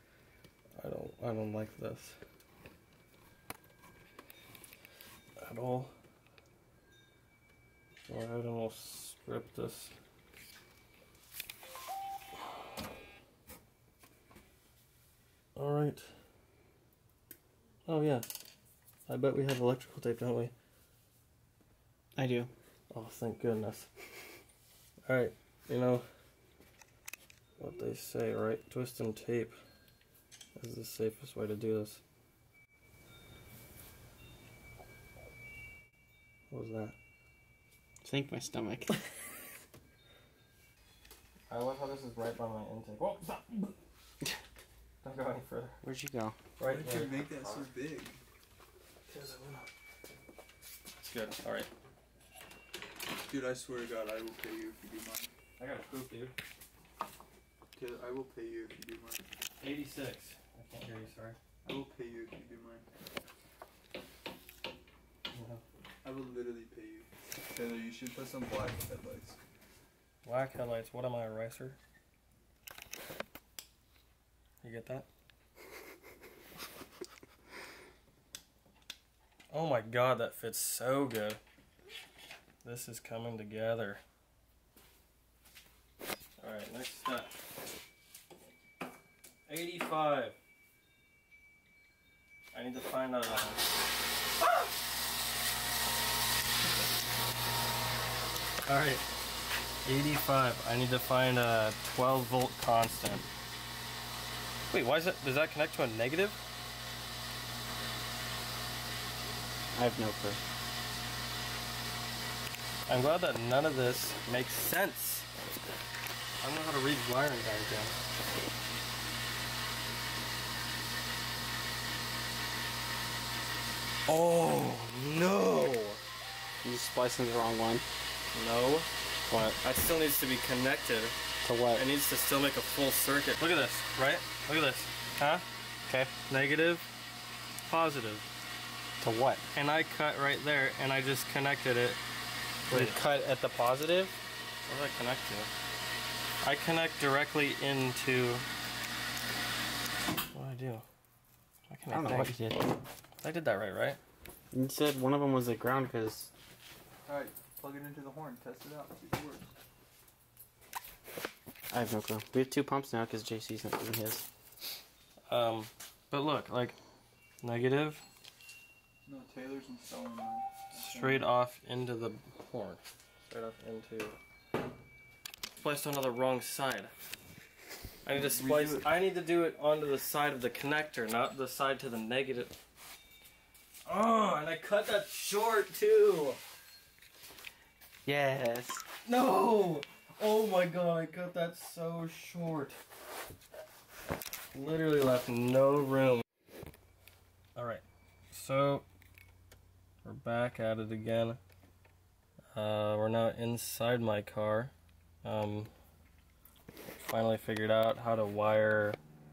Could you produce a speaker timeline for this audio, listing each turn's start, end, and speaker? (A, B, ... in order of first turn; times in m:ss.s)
0:00.8-0:02.1 A
0:05.4-0:05.9 A
0:08.1-0:09.9 A
0:15.6-0:16.1 A
0:17.8-0:18.2 A
0:19.1-0:20.5 A
0:22.2-0:22.5 B
0:22.9-0:23.9 A
0:25.0-0:26.0 A
0:27.6-0:29.5 A
0:30.6-0:32.0 A
0:36.5-0:37.0 A
0:38.1-0:38.8 B
0:41.5-0:43.8 A
0:45.0-0:45.8 A
0:45.8-0:46.3 B
0:46.6-0:47.7 A
0:46.6-0:48.2 C
0:49.1-0:49.7 A
0:51.0-0:51.7 A
0:53.2-0:55.3 C
0:55.6-0:56.3 A
0:57.8-0:59.2 C
0:59.6-1:01.4 A
1:01.6-1:02.8 C
1:05.3-1:05.6 A
1:06.0-1:09.4 C
1:10.2-1:11.8 A
1:14.6-1:15.1 A
1:19.5-1:21.4 A
1:22.6-1:24.0 A
1:26.4-1:27.3 A
1:29.5-1:30.4 A
1:32.5-1:33.6 A
1:38.6-1:39.0 A
1:39.8-1:43.3 A
1:44.7-1:46.4 A
1:49.7-1:50.4 B
1:52.9-1:55.8 A
1:56.4-1:57.9 A
2:04.1-2:06.0 A
2:06.6-2:07.8 B
2:08.3-2:11.1 A
2:11.4-2:11.8 B
2:11.7-2:15.4 A
2:16.3-2:16.8 A
2:17.6-2:18.2 A
2:19.0-2:19.4 B
2:19.5-2:22.0 A
2:22.7-2:23.0 A
2:22.7-2:24.1 B
2:24.6-2:25.5 A
2:26.4-2:28.4 A
2:30.3-2:30.8 A
2:31.7-2:32.6 A
2:31.9-2:32.7 B
2:33.2-2:34.0 A
2:34.5-2:36.3 B
2:37.0-2:39.5 C
2:41.7-2:44.2 B
2:45.3-2:46.8 A
2:47.4-2:48.0 A
2:49.0-2:51.2 C
2:50.7-2:54.1 A
2:55.6-2:56.9 A
2:58.0-3:02.5 A
2:58.1-2:58.9 C
3:03.8-3:06.4 A
3:08.0-3:08.8 B
3:09.0-3:12.8 A
3:14.5-3:16.2 A
3:17.6-3:18.8 A
3:20.0-3:21.4 A
3:22.5-3:24.7 A
3:25.2-3:25.7 A
3:27.0-3:29.0 A